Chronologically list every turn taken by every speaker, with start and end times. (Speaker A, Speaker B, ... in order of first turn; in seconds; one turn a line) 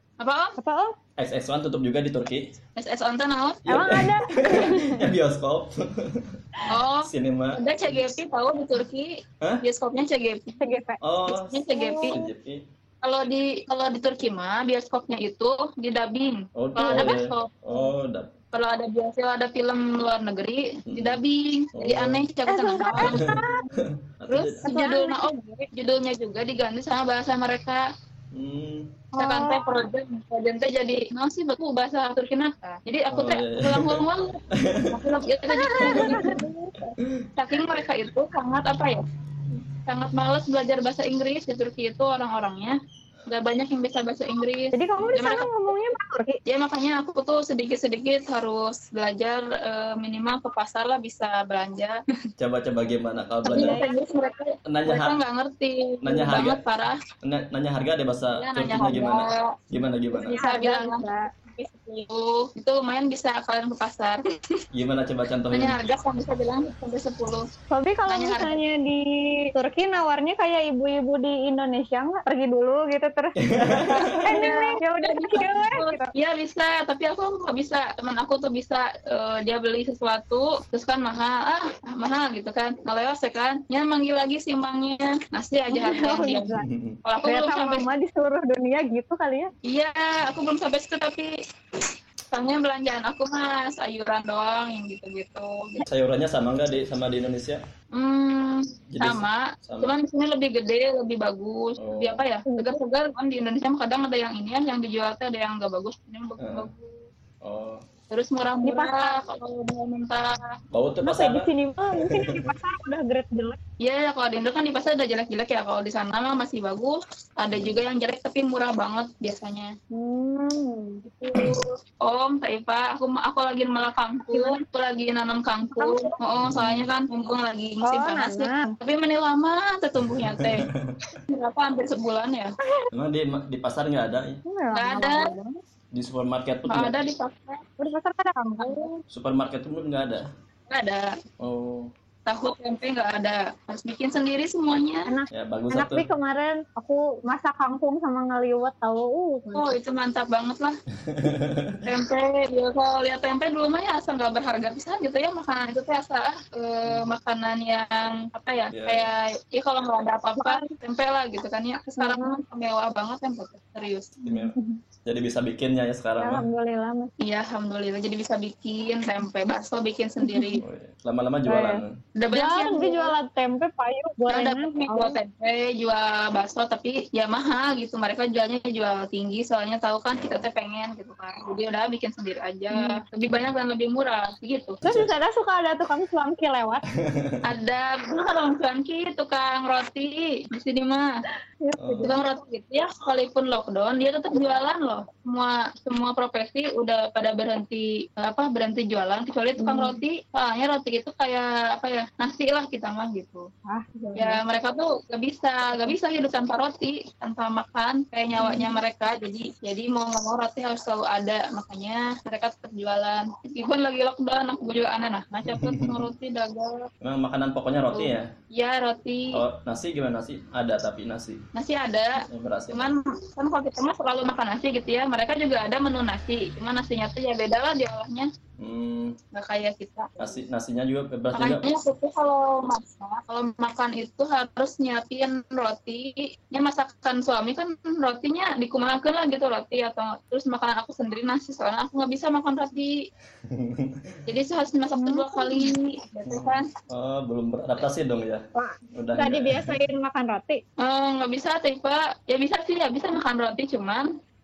Speaker A: 0.2-0.6
Speaker B: 0.6-0.9
Speaker C: 1.2-2.4
Speaker A: 2.8-3.6
Speaker C: 3.7-5.7
Speaker B: 3.7-5.1
Speaker A: 6.7-9.1
Speaker C: 7.0-8.1
Speaker A: 9.6-10.6
Speaker B: 10.6-11.0
Speaker C: 11.0-12.6
Speaker A: 11.3-12.2
Speaker B: 11.7-12.2
Speaker A: 13.0-17.6
Speaker C: 16.6-18.3
Speaker B: 16.8-17.1
Speaker A: 18.5-23.7
Speaker C: 20.9-21.2
Speaker C: 21.8-22.2
Speaker B: 22.5-23.6
Speaker C: 22.9-23.3
Speaker C: 24.2-24.7
Speaker A: 24.3-27.8
Speaker B: 24.7-25.3
Speaker C: 28.3-28.9
Speaker B: 29.2-29.6
Speaker A: 29.2-34.4
Speaker C: 33.1-34.0
Speaker C: 34.6-34.9
Speaker A: 34.9-36.8
Speaker B: 35.5-36.4
Speaker C: 35.8-36.4
Speaker A: 37.4-39.0
Speaker A: 39.9-42.8
Speaker A: 43.3-45.7
Speaker B: 44.7-46.4
Speaker A: 46.5-52.0
Speaker C: 52.4-53.8
Speaker A: 53.5-57.0
Speaker B: 53.5-54.0
Speaker C: 54.7-55.2
Speaker C: 56.0-56.6
Speaker C: 57.2-60.4
Speaker A: 58.4-59.4
Speaker A: 60.2-64.2
Speaker B: 60.3-61.3
Speaker C: 64.7-65.8
Speaker A: 65.5-67.4
Speaker B: 67.7-76.1
Speaker A: 68.1-68.6
Speaker C: 73.4-73.9
Speaker A: 74.2-86.5
Speaker B: 85.7-86.7
Speaker C: 86.6-87.0
Speaker A: 87.0-87.9
Speaker B: 87.2-89.5
Speaker A: 89.7-91.3
Speaker A: 92.3-95.8
Speaker C: 95.8-97.6
Speaker A: 98.0-107.0
Speaker C: 98.9-100.0
Speaker C: 101.8-102.2
Speaker B: 102.5-102.8
Speaker C: 106.4-106.7
Speaker C: 107.4-107.8
Speaker A: 108.1-110.3
Speaker B: 108.6-109.1
Speaker C: 110.7-112.5
Speaker B: 111.0-113.6
Speaker A: 113.8-119.7
Speaker C: 117.5-117.8
Speaker B: 119.9-121.0
Speaker A: 121.0-130.6
Speaker B: 124.3-124.6
Speaker B: 125.6-126.1
Speaker C: 126.4-126.9
Speaker B: 127.8-128.8
Speaker C: 130.0-130.9
Speaker A: 131.3-132.5
Speaker C: 132.9-134.4
Speaker B: 134.5-135.6
Speaker A: 134.7-135.3
Speaker C: 135.9-136.9
Speaker A: 136.7-137.6
Speaker B: 137.8-138.9
Speaker A: 138.6-139.0
Speaker C: 139.1-140.2
Speaker A: 140.7-141.1
Speaker C: 141.4-141.9
Speaker A: 142.3-145.1
Speaker B: 145.1-149.7
Speaker C: 145.3-146.1
Speaker A: 149.5-150.7
Speaker C: 151.1-151.8
Speaker A: 151.8-164.2
Speaker C: 158.7-159.1
Speaker B: 160.4-160.7
Speaker B: 162.0-162.4
Speaker B: 164.2-164.8
Speaker C: 164.2-164.5
Speaker C: 165.1-166.4
Speaker B: 166.2-167.1
Speaker A: 167.2-170.6
Speaker B: 170.2-170.6
Speaker C: 170.6-172.0
Speaker B: 171.5-171.8
Speaker A: 172.2-173.1
Speaker B: 172.3-175.2
Speaker A: 174.3-184.8
Speaker C: 180.1-180.5
Speaker B: 184.8-186.8
Speaker C: 184.8-185.1
Speaker A: 187.5-191.1
Speaker B: 191.6-192.2
Speaker C: 191.8-192.2
Speaker A: 192.0-203.5
Speaker B: 199.6-200.0
Speaker B: 203.7-204.4
Speaker A: 204.2-216.7
Speaker B: 208.4-208.7
Speaker C: 215.5-216.0
Speaker C: 217.0-218.3
Speaker A: 217.9-219.4
Speaker C: 219.3-221.4
Speaker A: 221.6-222.1
Speaker C: 222.2-222.9
Speaker A: 222.7-228.3
Speaker C: 228.6-229.1
Speaker A: 229.3-230.4
Speaker C: 230.2-231.6
Speaker A: 231.3-242.9
Speaker C: 243.5-243.9
Speaker A: 244.3-246.6
Speaker B: 245.0-245.7
Speaker C: 246.3-248.4
Speaker B: 248.6-250.6
Speaker C: 248.9-249.8
Speaker A: 250.8-254.1